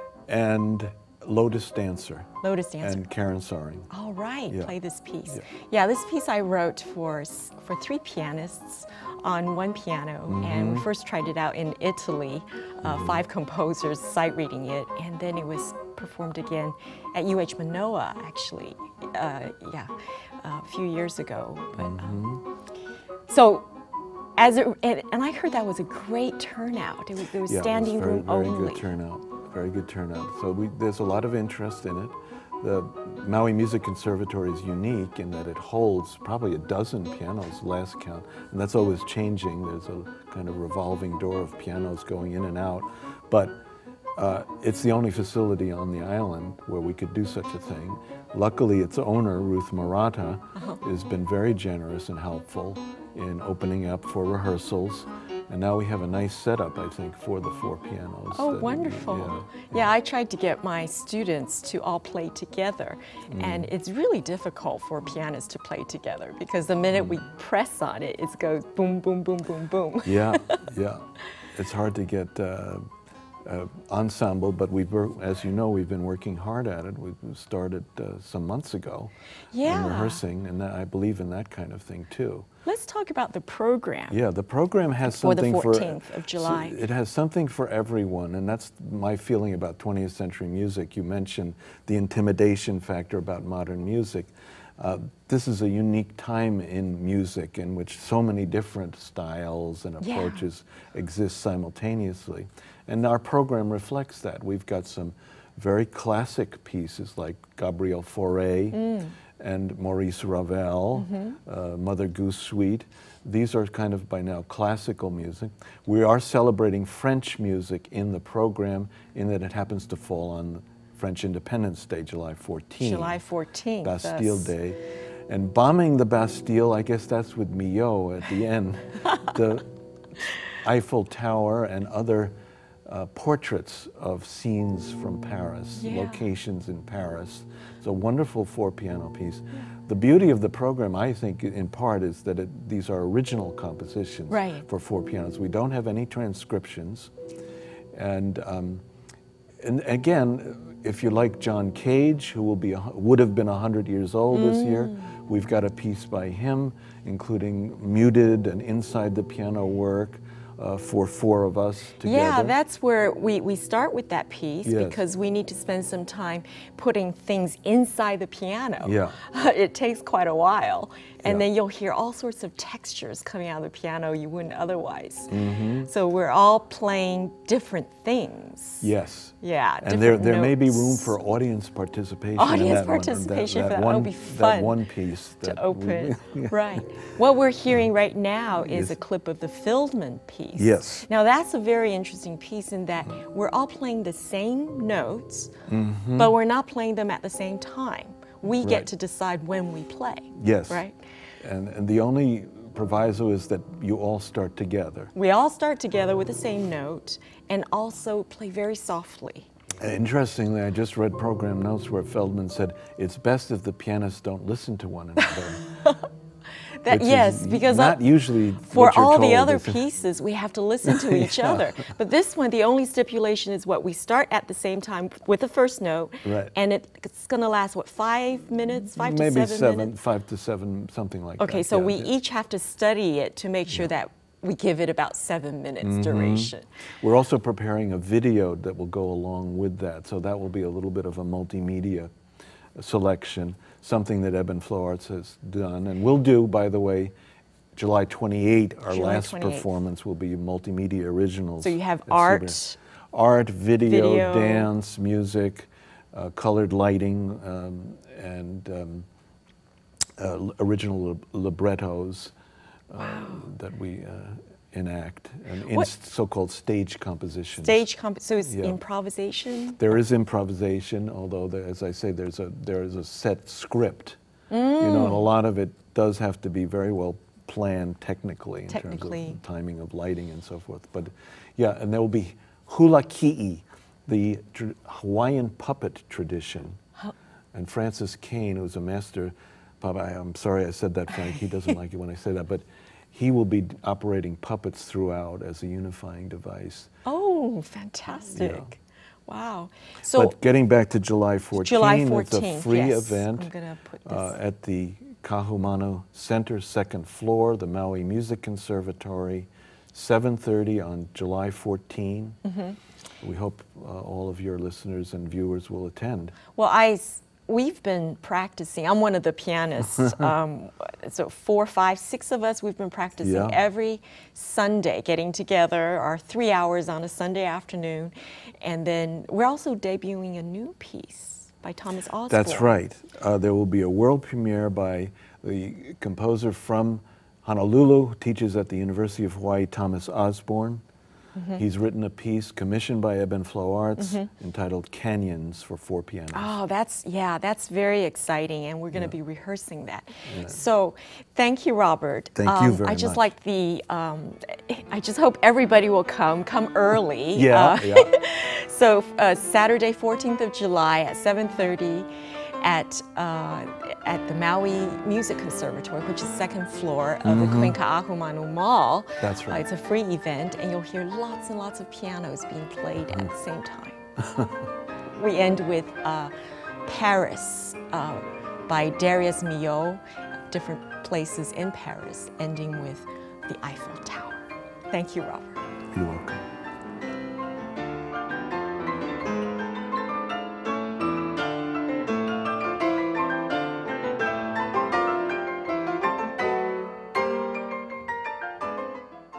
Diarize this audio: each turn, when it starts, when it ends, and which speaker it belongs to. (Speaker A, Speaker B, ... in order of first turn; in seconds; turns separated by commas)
Speaker A: 0.3-2.3, Speaker B: 2.4-3.0, Speaker A: 2.8-3.9, Speaker B: 3.9-22.2, Speaker A: 10.3-10.9, Speaker A: 12.8-13.2, Speaker A: 21.8-22.4, Speaker B: 23.3-23.7, Speaker B: 24.4-28.9, Speaker A: 27.5-43.6, Speaker A: 44.2-59.7, Speaker B: 58.3-70.6, Speaker A: 63.3-63.7, Speaker A: 70.0-72.8, Speaker A: 73.5-79.1, Speaker B: 79.5-80.2, Speaker A: 79.6-82.5, Speaker B: 82.7-84.2, Speaker A: 84.1-108.8, Speaker B: 85.0-86.8, Speaker B: 100.0-100.5, Speaker B: 108.7-109.2, Speaker A: 109.4-123.2, Speaker B: 111.0-111.4, Speaker B: 122.8-124.5, Speaker A: 123.8-129.7, Speaker A: 130.5-132.3, Speaker A: 132.9-147.1, Speaker B: 135.8-136.2, Speaker B: 144.3-144.7, Speaker A: 147.9-148.8, Speaker A: 149.6-162.6, Speaker B: 154.3-155.1, Speaker B: 162.0-178.9, Speaker A: 164.6-165.0, Speaker A: 168.8-169.2, Speaker A: 175.3-175.9, Speaker A: 178.8-186.8, Speaker B: 179.4-181.2, Speaker B: 182.4-184.8, Speaker B: 185.4-195.5, Speaker A: 188.7-188.9, Speaker A: 190.6-191.1, Speaker A: 195.7-196.3, Speaker B: 196.2-201.0, Speaker A: 198.6-198.9, Speaker A: 200.3-200.9, Speaker A: 201.4-205.1, Speaker B: 205.1-209.5, Speaker A: 209.8-215.6, Speaker B: 215.2-216.1, Speaker B: 216.8-229.9, Speaker A: 216.9-219.8, Speaker A: 220.8-221.7, Speaker A: 226.2-226.5, Speaker A: 228.9-232.1, Speaker B: 231.4-236.7, Speaker A: 235.8-242.1, Speaker A: 242.8-247.1, Speaker A: 247.8-252.6, Speaker B: 248.9-249.7, Speaker B: 251.6-252.8, Speaker A: 253.1-259.1, Speaker B: 253.8-254.7, Speaker A: 260.2-262.3, Speaker A: 262.9-267.8, Speaker B: 267.6-269.8, Speaker A: 268.5-268.8, Speaker A: 269.8-274.2, Speaker B: 274.5-275.3, Speaker A: 274.8-286.8, Speaker B: 278.7-279.4, Speaker A: 287.5-296.9, Speaker B: 297.1-300.4, Speaker A: 298.3-298.7, Speaker A: 300.1-303.5, Speaker B: 301.6-304.4, Speaker A: 304.1-312.4, Speaker B: 312.4-312.8, Speaker A: 313.2-316.4, Speaker B: 316.6-332.7, Speaker A: 323.2-323.6, Speaker A: 332.3-340.8, Speaker B: 341.4-341.6, Speaker A: 341.6-346.5, Speaker B: 344.0-344.3, Speaker B: 346.3-362.1, Speaker A: 350.2-350.6, Speaker A: 352.4-353.3, Speaker A: 357.3-358.1, Speaker B: 362.6-374.0, Speaker A: 367.2-367.8, Speaker A: 369.2-369.6, Speaker B: 375.1-376.3, Speaker B: 376.9-385.7, Speaker A: 385.9-386.4